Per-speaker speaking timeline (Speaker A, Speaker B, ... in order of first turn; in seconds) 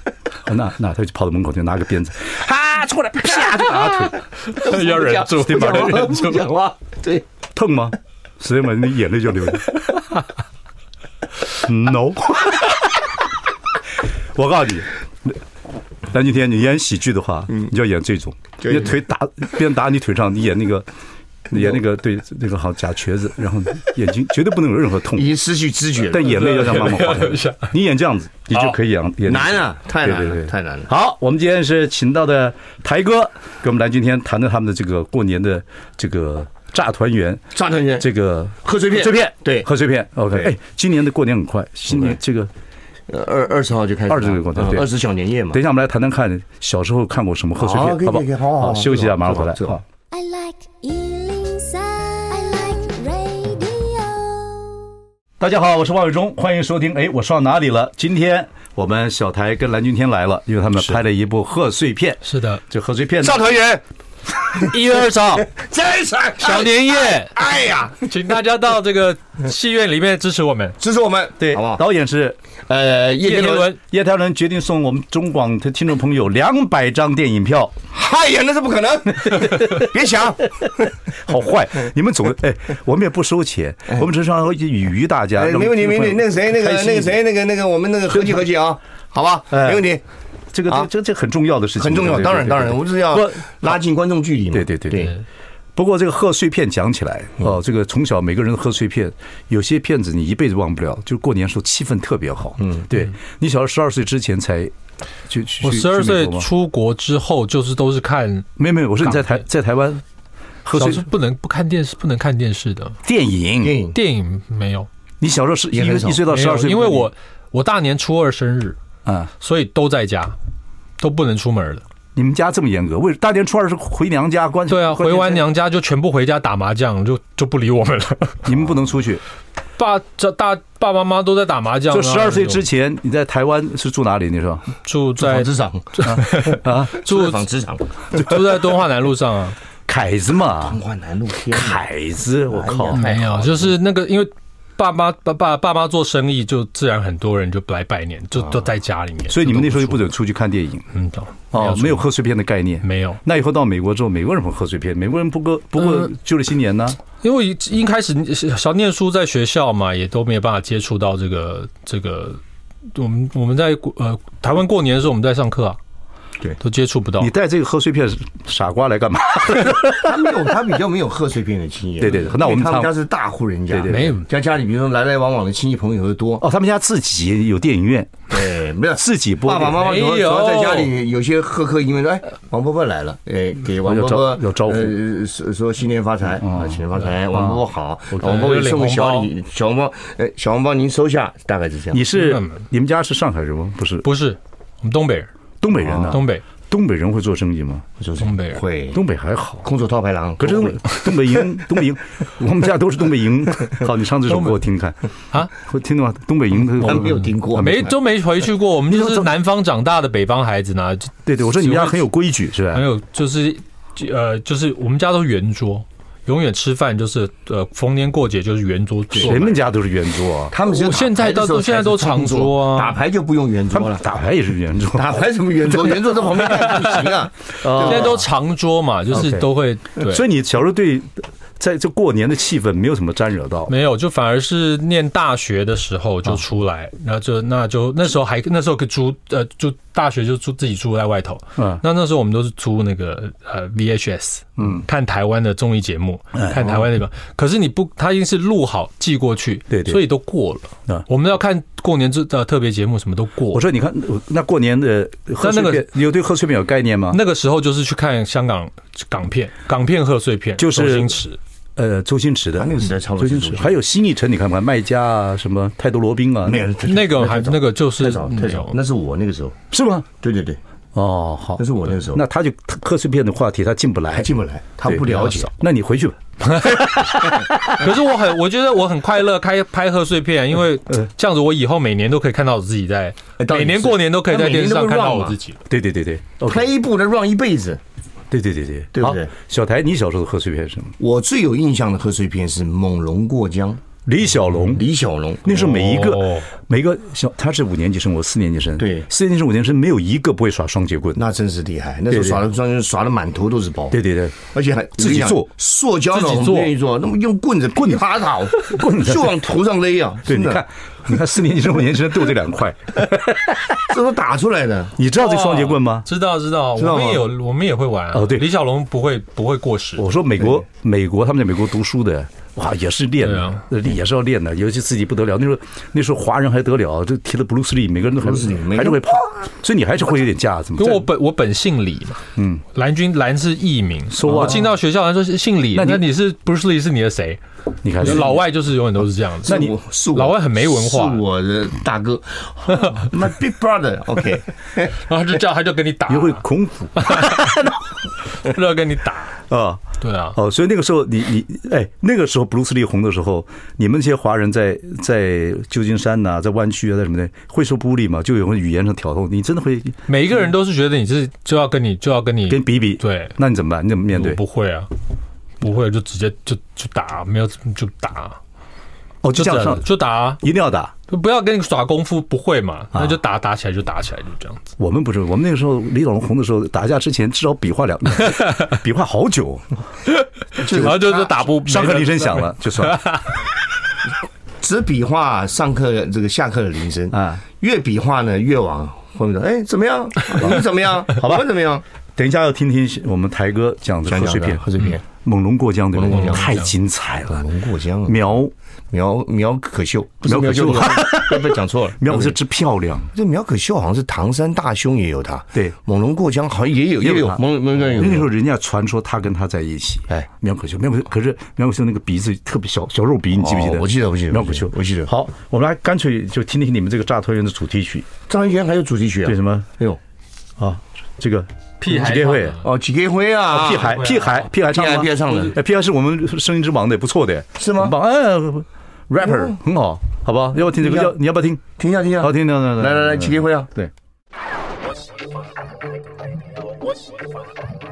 Speaker A: 0.5-2.5, 3.6-4.1, 5.7-6.0, 7.5-10.0, 11.6-13.0, 14.3-15.4, 16.1-20.9, 21.5-25.3, 26.0-37.4, 38.0-42.5, 44.1-44.9, 45.5-49.8, 55.4-63.5, 71.4-72.4, 73.8-77.8, 79.4-79.7, 81.2-87.2, 89.5-89.8, 90.5-93.8, 94.5-95.1, 95.8-104.7, 105.3-106.5, 108.6-110.0, 110.7-111.1, 113.0-113.8, 115.2-117.1, 119.1-119.3, 122.2-125.5, 128.4-129.2, 131.9-134.7, 136.0-137.0, 139.9-140.8, 141.5-143.1, 149.3-150.8, 151.5-157.0, 167.2-170.3, 172.0-172.9, 173.7-174.1, 176.4-178.3, 179.0-179.9, 183.8-185.0, 186.4-187.6, 191.9-194.1, 195.6-197.9, 198.9-199.7, 200.4-205.0, 205.5-207.3, 208.9-209.3, 211.2-212.8, 219.2-220.6, 223.7-225.2, 227.6-228.2, 229.1-233.7, 241.6-241.8, 244.6-244.8, 246.4-246.7, 249.7-250.1, 253.5-257.2, 260.6-261.2, 261.8-266.7, 269.7-270.1, 270.9-274.3, 274.9-277.9, 285.7-286.7, 288.3-290.9, 294.1-294.9, 295.4-301.2, 302.1-302.4, 303.9-304.4, 305.0-305.5, 308.6-309.3, 310.3-313.9, 315.0-316.1, 318.1-318.5, 320.0-331.1, 332.4-332.6, 334.1-334.7, 335.8-336.1, 337.8-338.4, 339.5-339.7, 346.1-347.9, 349.5-349.8, 350.4-360.0, 362.5-364.4, 369.2-370.9, 372.9-373.2, 374.8-379.8, 380.7-383.1, 387.1-387.4, 390.4-391.5, 392.2-397.4, 398.1-398.5, 400.2-403.1, 407.0-418.1, 419.2-419.7, 420.6-422.6, 423.5-431.7, 432.2-433.9
Speaker B: 2.4-7.2, 18.6-19.0, 25.1-26.4, 29.3-30.9, 37.5-38.1, 38.6-39.7, 41.9-42.2, 43.1-45.6, 47.6-49.8, 63.2-63.8, 65.5-68.1, 70.8-71.8, 72.7-73.7, 77.9-80.9, 85.4-90.0, 91.8-95.2, 102.6-102.9, 113.6-114.0, 115.7-116.2, 135.2-138.2, 140.6-141.9, 142.5-143.8, 169.9-176.4, 178.3-192.1, 195.8-196.2, 198.0-199.0, 199.6-201.4, 206.7-208.0, 220.5-224.1, 224.9-228.3, 262.6-263.8, 266.4-269.6, 270.2-270.6, 271.6-272.2, 274.1-275.5, 283.4-285.4, 286.4-287.8, 288.9-289.3, 291.0-293.8, 294.7-296.0, 298.8-299.1, 301.2-304.0, 304.5-310.6, 313.9-315.0, 316.8-317.3, 328.2-329.4, 339.4-344.9, 380.6-381.3, 384.6-391.8, 394.1-395.0, 395.9-396.6, 397.3-398.2, 398.9-402.4, 403.1-408.3, 413.4-415.1, 418.3-420.0, 422.6-424.1, 424.7-425.6, 427.6-428.0, 429.2-429.6, 430.7-431.1, 431.8-433.7
Speaker C: 4.5-6.5, 26.2-27.7, 62.2-62.6, 64.6-65.5, 66.4-70.8, 73.2-73.8, 105.6-108.5, 109.0-109.4, 110.7-113.0, 113.9-114.9, 116.3-118.8, 119.4-120.4, 121.0-121.8, 124.7-128.5, 129.8-132.6, 134.8-137.4, 138.1-139.6, 142.9-150.1, 150.9-152.1, 152.8-153.2, 155.8-156.1, 157.2-162.4, 162.9-165.8, 166.6-167.3, 173.9-174.3, 179.7-180.9, 188.2-189.3, 192.1-192.6, 194.0-195.3, 196.1-196.4, 198.2-198.6, 204.3-204.6, 207.5-212.0, 212.7-219.6, 220.7-223.0, 226.8-227.1, 227.8-230.2, 233.7-253.6, 255.4-255.9, 257.1-261.4, 266.8-268.8, 276.5-276.9, 277.7-285.6, 296.0-296.5, 306.1-306.7, 315.1-320.1, 323.2-323.6, 330.8-337.4, 338.0-341.2, 345.0-346.4, 347.0-347.5, 348.4-349.4, 350.0-350.4, 360.1-363.4, 364.1-364.9, 365.6-368.4, 369.3-370.4, 371.1-374.7, 380.1-383.4, 396.1-396.7, 421.8-422.7, 423.8-424.5
Speaker D: 50.1-54.9